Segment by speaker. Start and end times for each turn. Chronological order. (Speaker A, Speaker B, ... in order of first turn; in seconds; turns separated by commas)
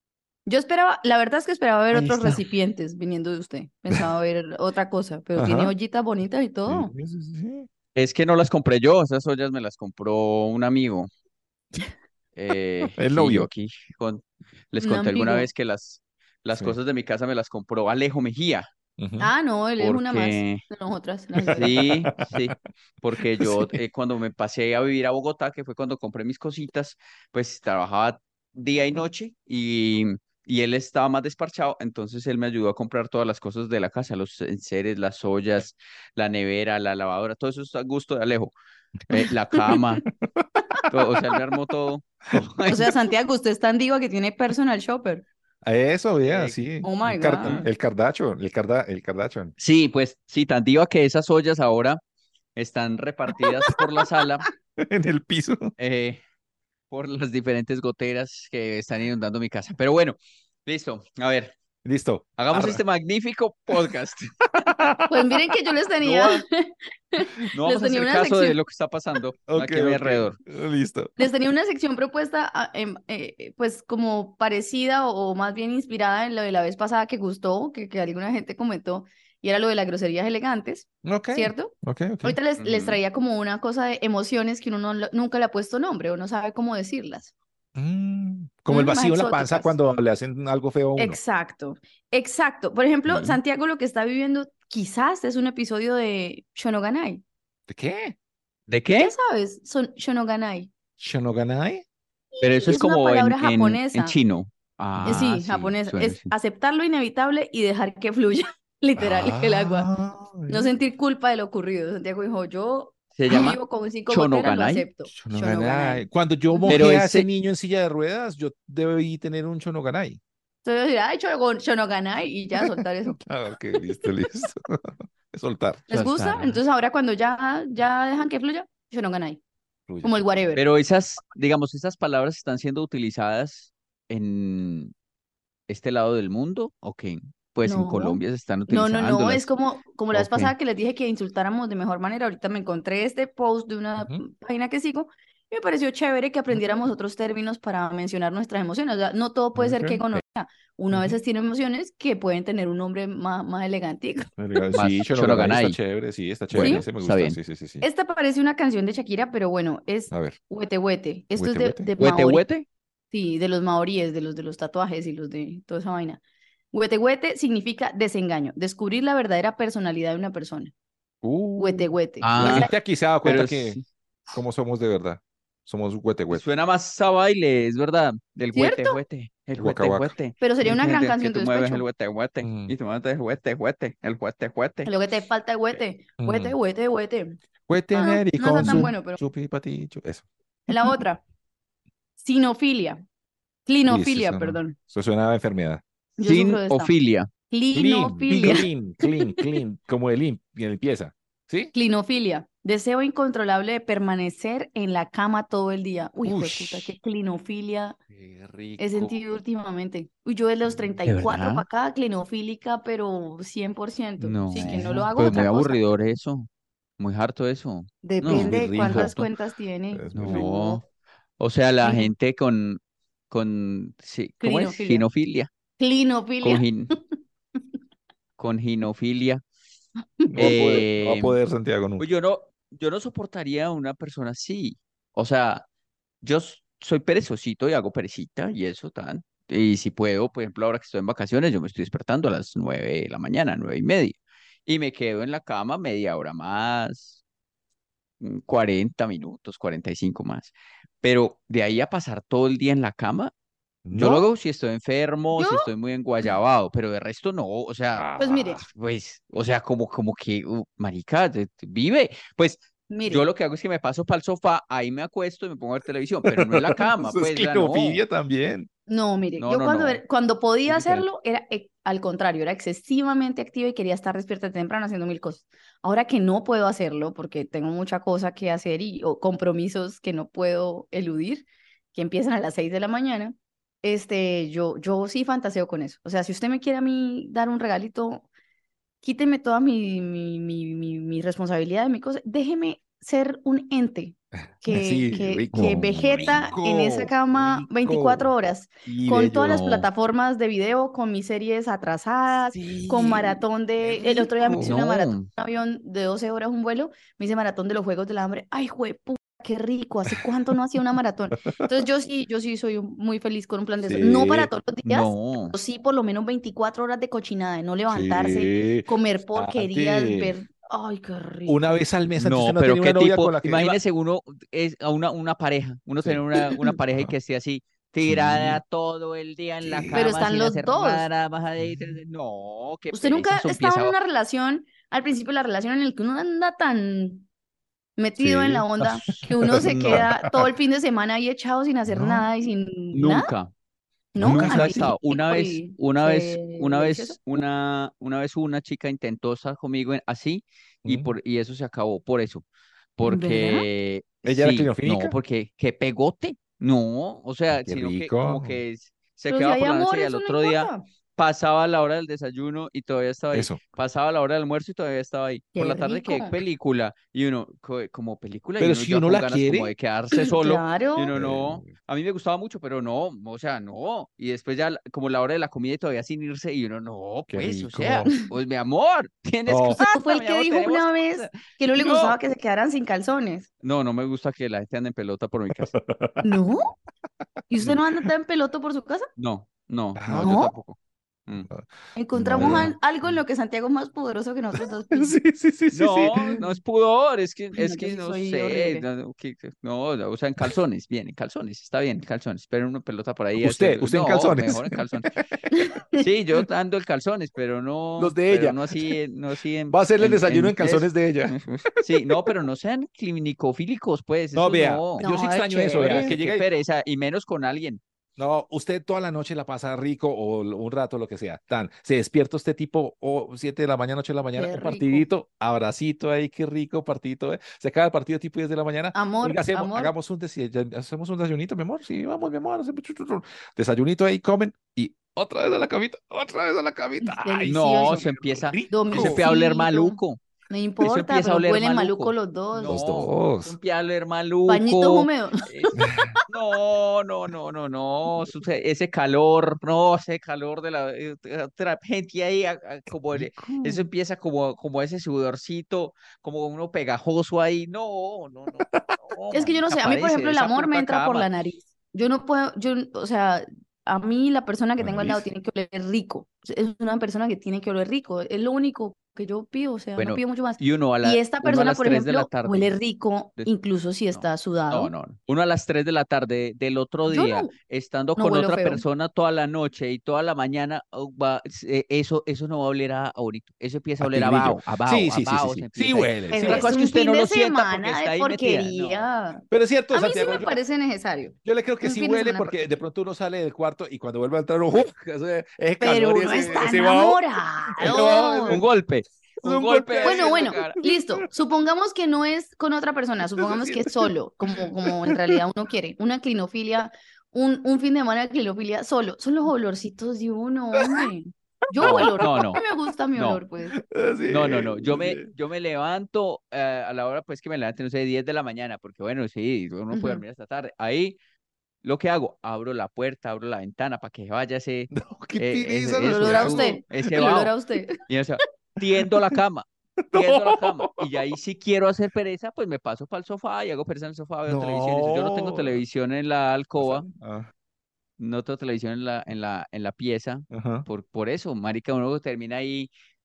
Speaker A: 0.5-6.9, Speaker B: 1.9-2.4, Speaker B: 5.4-5.7, Speaker B: 6.7-7.7, Speaker C: 8.0-11.1, Speaker C: 12.3-18.7, Speaker B: 13.0-13.5, Speaker A: 14.8-15.5, Speaker B: 19.0-19.3, Speaker A: 19.2-21.8, Speaker C: 19.8-20.6, Speaker B: 21.4-22.3, Speaker C: 21.5-38.5, Speaker B: 23.2-23.8, Speaker C: 39.1-40.1, Speaker B: 40.3-40.6, Speaker C: 40.9-42.9, Speaker A: 42.7-45.2, Speaker B: 45.6-49.5, Speaker C: 46.2-46.6, Speaker A: 46.8-47.6, Speaker C: 47.4-47.7, Speaker C: 49.6-52.0, Speaker C: 52.6-54.5, Speaker B: 54.8-55.7, Speaker C: 55.8-56.2, Speaker C: 56.9-61.5, Speaker B: 61.9-62.8, Speaker C: 62.4-64.7, Speaker B: 64.6-65.5, Speaker A: 65.1-68.6, Speaker C: 66.0-66.4, Speaker C: 67.5-70.4, Speaker B: 69.5-71.1, Speaker A: 71.2-87.3, Speaker B: 81.0-82.4, Speaker C: 82.6-83.0, Speaker B: 87.8-91.2, Speaker A: 88.7-89.8, Speaker A: 91.0-97.2, Speaker B: 93.1-93.4, Speaker B: 97.7-98.2, Speaker C: 98.7-99.1, Speaker A: 99.0-100.7, Speaker B: 101.0-101.8, Speaker A: 102.3-104.2, Speaker C: 102.4-106.3, Speaker B: 104.9-105.3, Speaker A: 105.0-109.9, Speaker B: 109.0-110.7, Speaker A: 110.5-116.8, Speaker C: 113.2-114.9, Speaker B: 115.1-120.2, Speaker C: 116.7-117.3, Speaker A: 120.6-123.2, Speaker B: 122.6-125.9, Speaker A: 125.9-129.4, Speaker C: 125.9-126.6, Speaker B: 129.9-130.6, Speaker A: 130.0-130.6, Speaker C: 130.6-134.9, Speaker C: 135.7-139.5, Speaker A: 137.6-154.8, Speaker C: 140.1-140.5, Speaker B: 144.0-144.2, Speaker B: 149.6-150.2, Speaker B: 154.4-157.8, Speaker C: 154.7-155.8, Speaker C: 156.5-157.4, Speaker A: 156.6-156.8, Speaker A: 157.8-162.4, Speaker B: 160.1-160.4, Speaker B: 161.4-161.9, Speaker C: 162.0-162.7, Speaker A: 163.1-166.2, Speaker A: 166.7-170.7, Speaker B: 171.2-176.4, Speaker A: 171.6-172.7, Speaker C: 172.2-173.8, Speaker C: 176.3-184.9, Speaker A: 178.5-179.0, Speaker B: 179.6-180.1, Speaker A: 180.4-181.8, Speaker B: 182.4-182.7, Speaker A: 184.9-187.4, Speaker B: 186.2-186.6, Speaker B: 187.7-190.2, Speaker A: 187.9-189.2, Speaker C: 188.6-188.9, Speaker A: 190.7-191.2, Speaker A: 192.2-193.0, Speaker A: 193.7-194.8, Speaker B: 193.9-195.8, Speaker A: 196.2-196.9, Speaker C: 196.2-197.3, Speaker A: 197.5-199.5, Speaker B: 197.7-201.7, Speaker C: 198.3-198.6, Speaker A: 201.7-208.0, Speaker B: 206.2-207.0, Speaker B: 208.1-209.2, Speaker A: 208.8-215.8, Speaker C: 211.1-211.7, Speaker C: 214.2-216.5, Speaker B: 214.5-215.4, Speaker C: 217.0-219.3, Speaker A: 218.0-220.8, Speaker B: 218.3-219.1, Speaker B: 219.9-220.5, Speaker C: 220.1-220.8, Speaker C: 221.4-225.5, Speaker A: 221.8-222.1, Speaker A: 224.4-225.1, Speaker A: 225.8-226.9, Speaker C: 226.4-226.9, Speaker C: 228.4-229.4, Speaker A: 230.2-230.6, Speaker B: 230.3-232.1, Speaker C: 230.4-231.4, Speaker C: 232.0-235.7, Speaker C: 236.2-247.2, Speaker C: 248.2-253.3, Speaker B: 253.8-254.3, Speaker C: 253.9-258.1, Speaker A: 255.4-255.7, Speaker B: 257.9-258.7, Speaker A: 258.2-258.6, Speaker C: 258.7-268.0, Speaker A: 262.9-263.2, Speaker B: 266.3-268.7, Speaker A: 268.9-288.3, Speaker C: 269.4-270.0, Speaker B: 270.7-271.1, Speaker A: 289.0-321.6, Speaker B: 294.7-298.3, Speaker B: 298.9-299.5, Speaker C: 299.4-299.9, Speaker B: 302.6-303.3, Speaker C: 302.7-303.3, Speaker B: 303.8-304.8, Speaker C: 304.0-305.3, Speaker B: 313.8-314.5, Speaker C: 314.9-315.6, Speaker B: 317.9-320.4, Speaker B: 321.5-323.8, Speaker C: 322.2-334.0, Speaker B: 326.0-327.1, Speaker B: 328.0-328.6, Speaker B: 329.6-330.2, Speaker A: 329.9-331.1, Speaker B: 331.6-331.9, Speaker A: 332.9-337.3, Speaker A: 338.0-343.3, Speaker B: 338.2-340.4, Speaker C: 339.6-340.1, Speaker B: 341.9-342.3, Speaker C: 342.9-343.5, Speaker A: 344.1-347.2, Speaker B: 344.2-344.9, Speaker C: 344.2-352.4, Speaker B: 350.9-351.1, Speaker C: 353.0-382.2, Speaker A: 353.0-353.7, Speaker B: 354.2-355.2, Speaker B: 357.6-358.6, Speaker A: 359.3-360.8, Speaker B: 363.3-363.6, Speaker A: 365.6-366.4, Speaker B: 368.6-369.7, Speaker A: 370.1-371.1, Speaker B: 371.1-371.7, Speaker B: 377.3-378.1, Speaker B: 379.5-379.8, Speaker A: 379.7-383.5, Speaker C: 383.6-385.8, Speaker B: 385.7-386.3, Speaker A: 386.2-386.7, Speaker A: 387.5-389.1, Speaker C: 389.2-390.4, Speaker B: 390.0-390.8, Speaker A: 390.1-390.5, Speaker B: 391.5-392.7, Speaker A: 391.9-395.2, Speaker C: 392.4-392.7, Speaker B: 394.9-396.4, Speaker C: 395.7-405.1, Speaker A: 397.6-398.9, Speaker B: 403.4-405.2, Speaker A: 405.5-406.1, Speaker C: 406.0-415.1, Speaker B: 408.0-409.0, Speaker B: 409.7-412.3, Speaker B: 414.4-416.4, Speaker A: 415.0-416.1, Speaker C: 415.8-417.8, Speaker B: 418.2-439.3, Speaker A: 424.4-425.1, Speaker A: 428.9-429.9, Speaker A: 437.0-438.1, Speaker C: 437.5-440.2, Speaker A: 438.7-440.0, Speaker A: 440.5-442.8, Speaker C: 440.8-445.8, Speaker B: 442.6-443.6, Speaker A: 444.5-446.3, Speaker B: 445.8-446.1, Speaker C: 446.3-461.3, Speaker B: 453.1-453.8, Speaker B: 458.7-459.0, Speaker A: 459.3-474.9, Speaker B: 464.8-465.2, Speaker C: 470.0-472.7, Speaker C: 474.1-489.1, Speaker A: 477.1-477.5, Speaker A: 478.2-478.8, Speaker B: 484.0-486.8, Speaker A: 486.3-492.7, Speaker B: 489.5-490.6, Speaker B: 491.4-498.6, Speaker A: 495.8-498.6, Speaker C: 497.8-500.8, Speaker B: 499.4-501.3, Speaker A: 500.0-513.8, Speaker B: 503.4-505.4, Speaker B: 510.8-511.1, Speaker B: 511.8-512.6, Speaker C: 511.8-512.6, Speaker C: 513.1-513.4, Speaker B: 513.8-515.3, Speaker C: 514.3-521.2, Speaker A: 519.9-520.2, Speaker C: 521.8-527.5, Speaker B: 524.9-527.3, Speaker A: 526.0-528.0, Speaker C: 528.0-537.1, Speaker B: 530.0-531.1, Speaker B: 534.5-535.8, Speaker B: 536.8-537.5, Speaker C: 538.2-542.9, Speaker B: 540.5-540.9